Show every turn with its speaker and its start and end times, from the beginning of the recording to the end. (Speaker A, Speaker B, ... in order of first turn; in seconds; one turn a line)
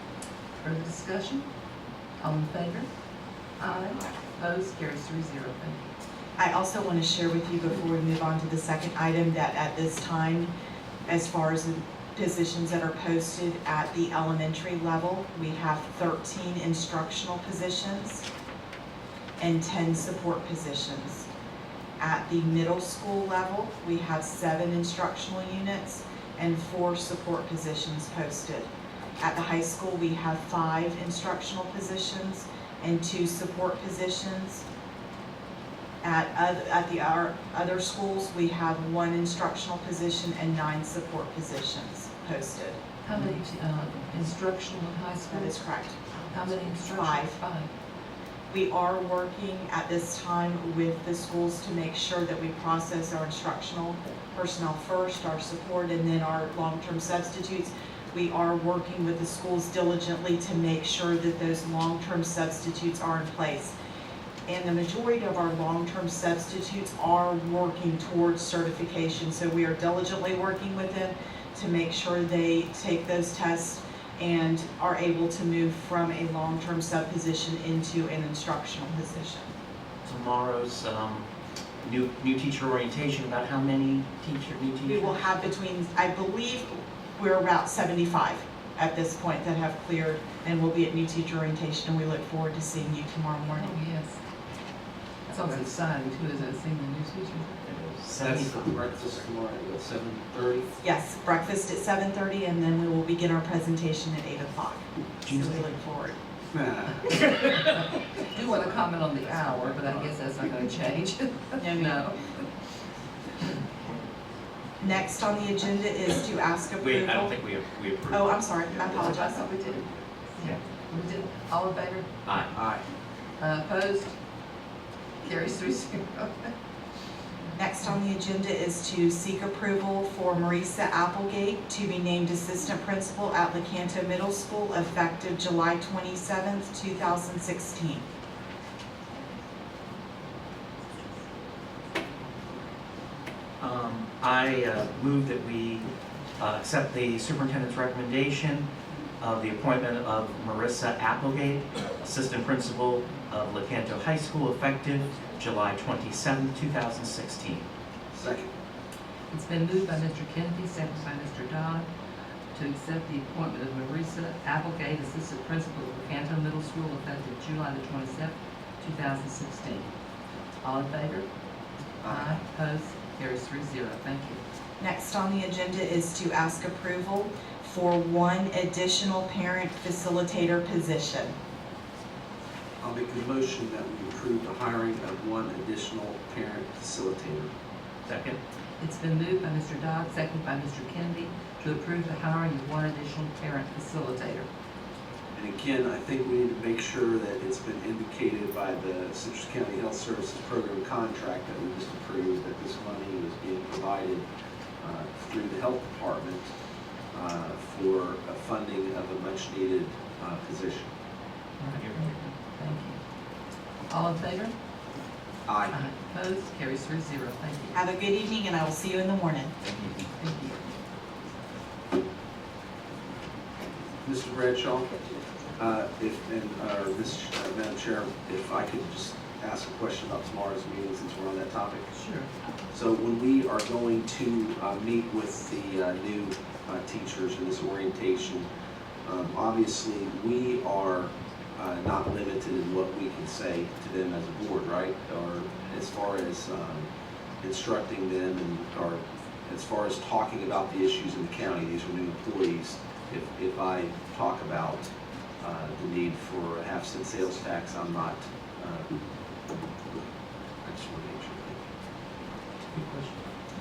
Speaker A: 0.6-1.5
Speaker A: 2.2-2.9
Speaker A: 3.6-5.9
Speaker B: 6.4-10.5
Speaker B: 11.1-18.3
Speaker B: 19.4-21.3
Speaker B: 22.0-34.6
Speaker B: 36.0-42.8
Speaker A: 43.0-45.5
Speaker B: 45.3-47.4
Speaker A: 46.3-47.7
Speaker B: 48.5-63.7
Speaker B: 64.5-79.5
Speaker C: 80.0-85.4
Speaker B: 84.8-93.8
Speaker A: 93.5-94.2
Speaker A: 95.3-97.6
Speaker C: 97.6-98.8
Speaker D: 98.2-100.7
Speaker B: 100.8-106.2
Speaker C: 105.2-105.7
Speaker D: 106.5-107.1
Speaker C: 107.2-107.6
Speaker A: 107.6-112.5
Speaker D: 109.8-110.1
Speaker B: 111.6-112.0
Speaker B: 114.8-117.4
Speaker C: 116.8-118.3
Speaker B: 118.1-119.5
Speaker D: 118.8-119.2
Speaker A: 119.0-122.1
Speaker C: 122.3-122.6
Speaker D: 122.5-122.9
Speaker A: 123.4-124.2
Speaker A: 125.2-126.5
Speaker A: 127.4-127.9
Speaker B: 127.6-138.1
Speaker C: 143.6-148.7
Speaker C: 149.2-157.7
Speaker D: 158.1-158.5
Speaker A: 159.3-161.9
Speaker A: 162.5-169.9
Speaker A: 170.6-171.3
Speaker D: 172.0-172.4
Speaker A: 172.1-174.4
Speaker B: 174.8-181.4
Speaker D: 182.8-187.5
Speaker C: 188.1-188.4
Speaker A: 188.8-194.5
Speaker D: 195.3-204.3
Speaker D: 204.8-206.5
Speaker D: 207.1-210.9
Speaker A: 211.6-213.0
Speaker C: 211.8-212.2
Speaker A: 213.9-214.6
Speaker D: 215.5-215.8
Speaker A: 215.7-217.8
Speaker B: 217.7-219.5
Speaker C: 219.6-220.1
Speaker A: 220.2-220.7
Speaker D: 224.0-225.0
Speaker D: 225.6-231.9
Speaker A: 231.9-232.3
Speaker D: 232.7-238.5
Speaker D: 239.0-246.9
Speaker D: 247.4-258.9
Speaker D: 260.6-261.6
Speaker C: 262.7-263.1